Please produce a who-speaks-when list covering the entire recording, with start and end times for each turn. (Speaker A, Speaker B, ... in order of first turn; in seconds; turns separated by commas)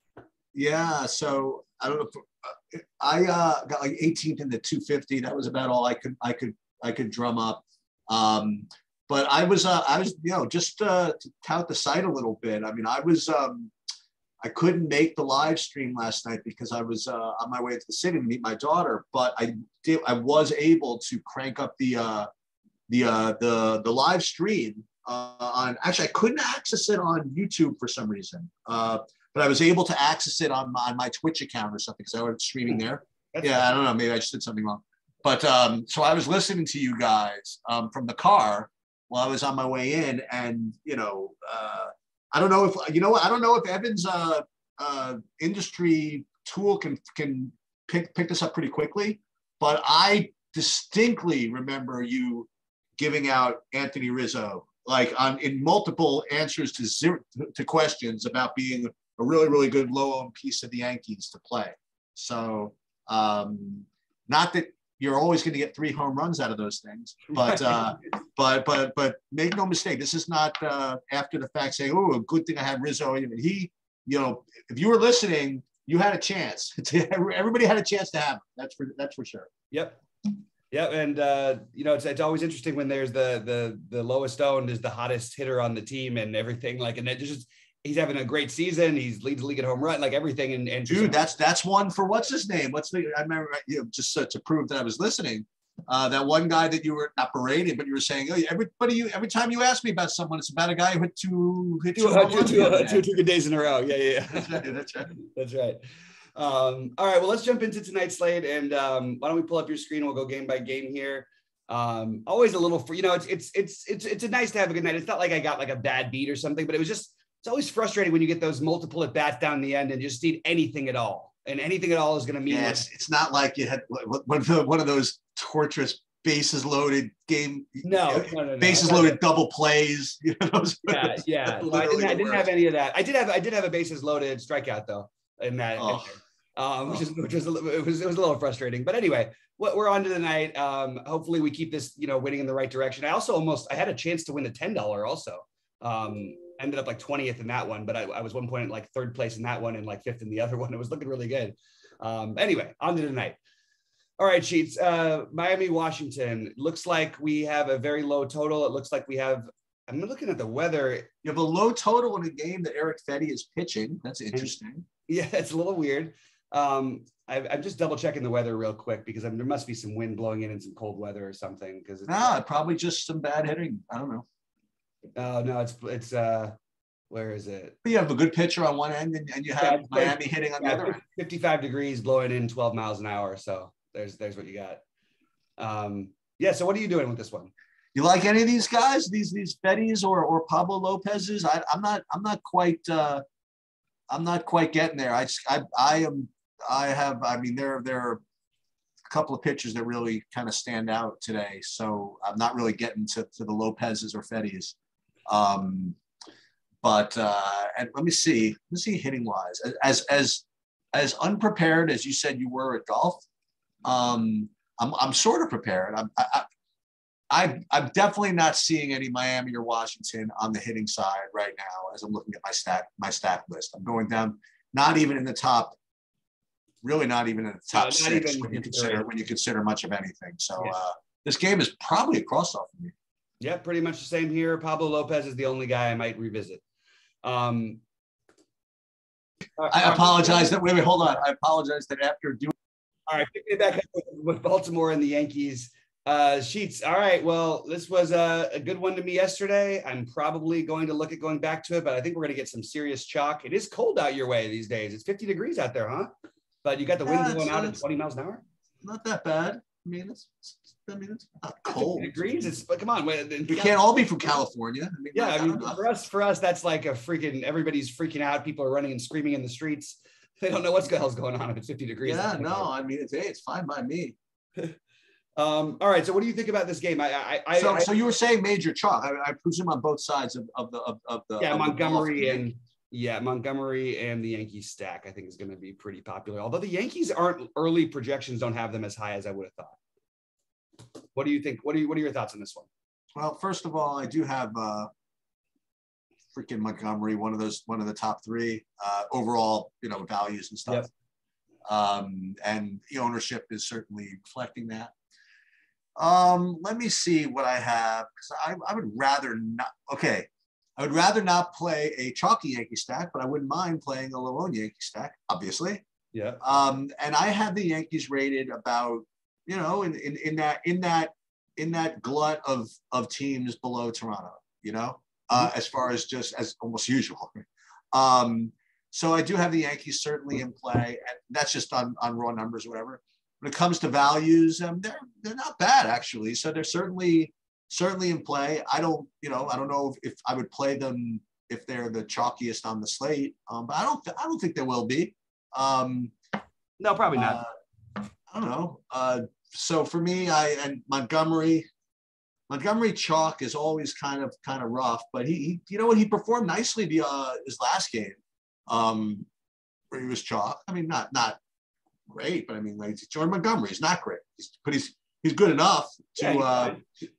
Speaker A: 0.5-13.7, Speaker A: 14.4-22.3, Speaker A: 22.9-79.5, Speaker B: 33.3-33.6, Speaker B: 67.3-67.9, Speaker B: 79.7-80.0, Speaker B: 80.7-91.2, Speaker A: 90.9-103.0, Speaker B: 102.0-105.8, Speaker A: 104.3-105.1, Speaker B: 106.3-122.9, Speaker A: 122.5-132.5, Speaker B: 127.8-129.2, Speaker B: 130.9-153.4, Speaker A: 135.8-136.1, Speaker B: 154.2-161.1, Speaker A: 161.2-164.8, Speaker B: 165.1-172.4, Speaker A: 172.1-174.3, Speaker B: 175.2-176.6, Speaker B: 177.1-177.8, Speaker A: 177.8-181.0, Speaker B: 179.6-184.8, Speaker B: 185.6-187.5, Speaker A: 187.9-193.2, Speaker A: 194.1-198.2, Speaker A: 199.1-204.8, Speaker A: 205.3-206.0, Speaker A: 206.8-213.2, Speaker A: 213.8-216.5, Speaker A: 217.3-225.8, Speaker A: 226.8-232.9, Speaker B: 227.7-229.1, Speaker B: 233.4-236.6, Speaker B: 237.2-237.8, Speaker B: 239.6-240.6, Speaker A: 239.7-242.5, Speaker B: 243.1-256.1, Speaker B: 256.6-258.4, Speaker A: 257.0-257.8, Speaker A: 258.8-262.2, Speaker B: 261.7-263.8, Speaker A: 263.5-265.8, Speaker B: 265.1-272.7, Speaker A: 272.1-274.2, Speaker B: 275.4-277.9, Speaker A: 277.6-282.5, Speaker B: 281.4-289.8, Speaker B: 291.1-292.7, Speaker A: 293.1-294.9, Speaker A: 296.3-300.9, Speaker A: 301.7-304.9, Speaker A: 306.0-315.8, Speaker B: 316.1-316.4, Speaker A: 316.4-346.1, Speaker B: 346.8-347.4, Speaker A: 347.1-347.5, Speaker A: 348.3-351.6, Speaker A: 352.5-359.3, Speaker A: 359.9-361.4, Speaker A: 362.1-366.8, Speaker B: 366.2-366.8